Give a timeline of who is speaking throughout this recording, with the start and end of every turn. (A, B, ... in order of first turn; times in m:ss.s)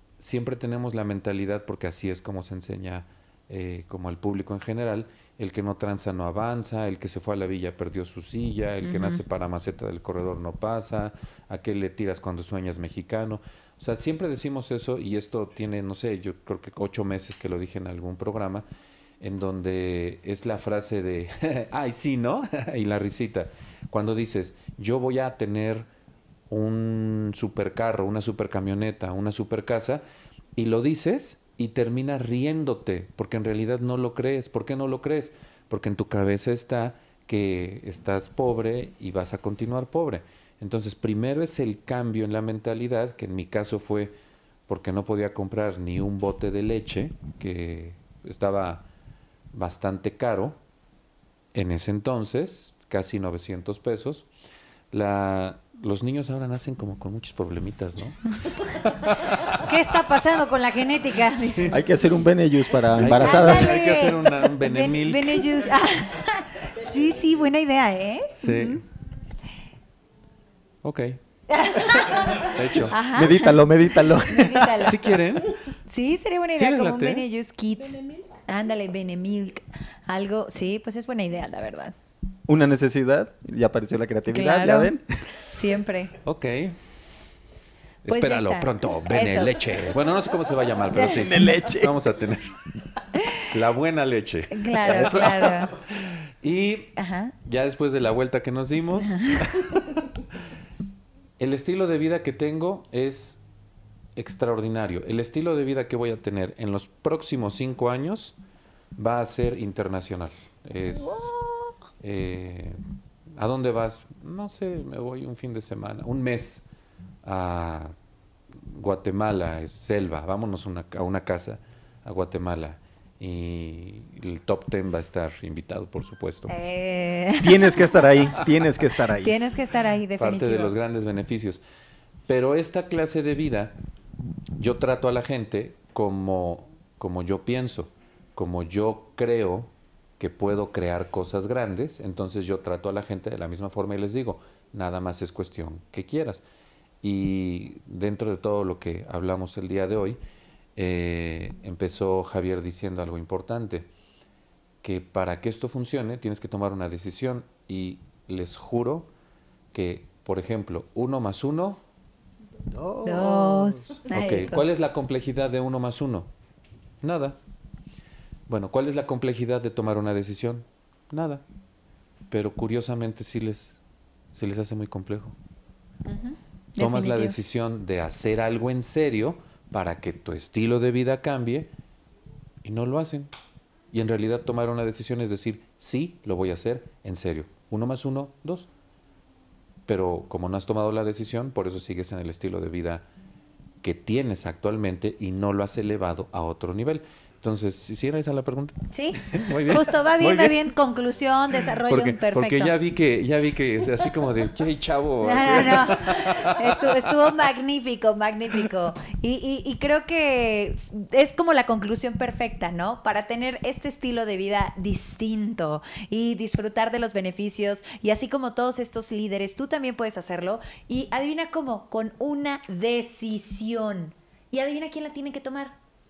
0:00.2-0:18.7 A
0:08.8-0:09.2 B
0:19.2-0:25.9 A
0:26.5-0:30.0 A
0:30.6-0:44.1 A
0:44.7-0:48.8 A
0:49.5-0:50.6 A
0:51.5-0:54.3 A
0:54.9-0:59.7 A
0:59.6-1:01.8 B
1:01.4-1:01.8 A
1:01.7-1:03.8 C
1:03.0-1:05.6 A
1:03.2-1:08.8 B
1:08.4-1:08.8 A
1:10.8-1:13.0 A
1:11.5-1:13.6 B
1:13.0-1:14.8 C
1:14.1-1:15.0 B
1:14.8-1:15.8 A
1:15.9-1:21.9 B
1:16.6-1:17.3 A
1:22.5-1:25.2 C
1:24.3-1:26.2 B
1:26.2-1:26.8 A
1:28.0-1:32.5 A
1:28.1-1:29.7 B
1:31.0-1:31.2 B
1:31.0-1:32.0 C
1:33.2-1:33.4 B
1:33.5-1:40.1 A
1:34.5-1:35.7 B
1:37.0-1:37.3 B
1:39.0-1:39.8 B
1:41.4-1:43.4 A
1:44.2-1:48.4 A
1:49.0-1:51.3 A
1:51.0-1:51.3 B
1:52.0-1:52.8 A
1:53.4-1:56.6 A
1:57.2-1:57.9 A
1:58.7-2:06.5 A
2:06.5-2:07.7 B
2:07.4-2:09.3 C
2:09.2-2:10.7 B
2:10.2-2:11.6 A
2:12.3-2:13.7 A
2:14.6-2:26.4 A
2:27.0-2:30.2 A
2:30.8-2:33.9 A
2:34.8-2:39.1 A
2:39.7-2:41.8 A
2:42.7-2:43.9 C
2:43.0-2:44.6 B
2:44.1-2:46.3 A
2:47.0-2:47.4 A
2:48.5-2:51.4 A
2:52.3-2:53.8 A
2:54.3-2:55.4 A
2:56.1-2:57.4 B
2:56.8-3:01.7 A
3:02.6-3:03.3 A
3:03.9-3:08.7 A
3:09.9-3:13.1 A
3:13.8-3:20.7 A
3:18.9-3:22.7 B
3:21.8-3:27.2 A
3:25.2-3:45.7 B